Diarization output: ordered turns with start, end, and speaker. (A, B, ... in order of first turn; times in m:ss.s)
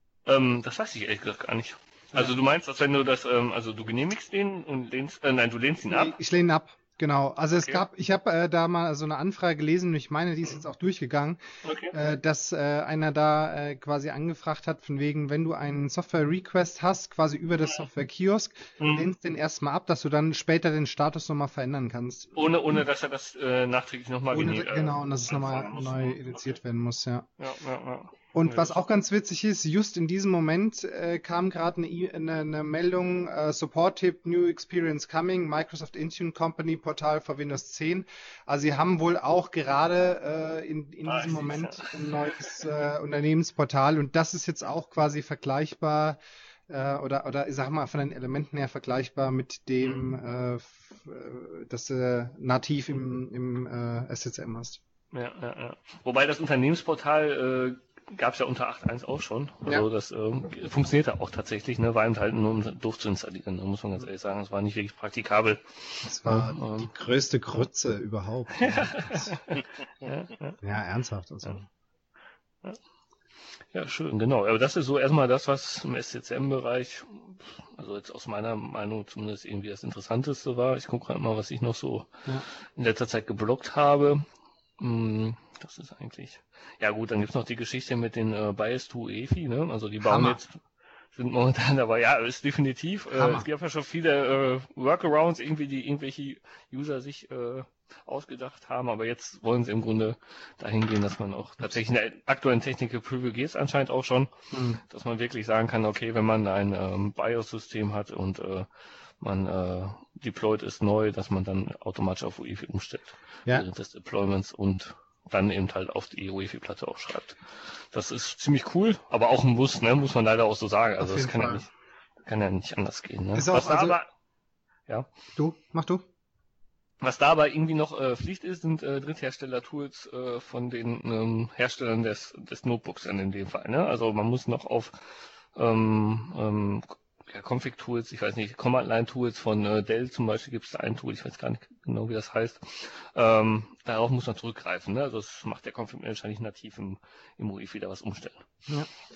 0:00.2-0:06.1 A
0:05.9-0:11.4 B
0:07.6-0:07.8 A
0:11.6-0:11.9 A
0:11.9-0:22.3 B
0:18.8-0:19.1 A
0:22.3-0:26.4 A
0:24.3-0:27.3 B
0:27.4-0:28.8 A
0:28.3-0:46.2 B
0:41.0-0:42.6 A
0:46.7-0:54.8 B
0:49.8-0:50.1 A
0:55.1-1:06.9 A
1:06.0-1:09.4 B
1:08.6-1:10.6 A
1:10.6-1:11.7 B
1:13.7-1:24.2 A
1:24.8-1:48.7 A
1:30.0-1:30.4 B
1:33.1-1:33.4 B
1:44.5-1:44.8 B
1:49.2-2:01.7 A
2:01.0-2:01.7 B
2:02.2-2:04.0 A
2:03.3-2:04.0 B
2:05.4-2:06.0 B
2:07.0-2:28.4 A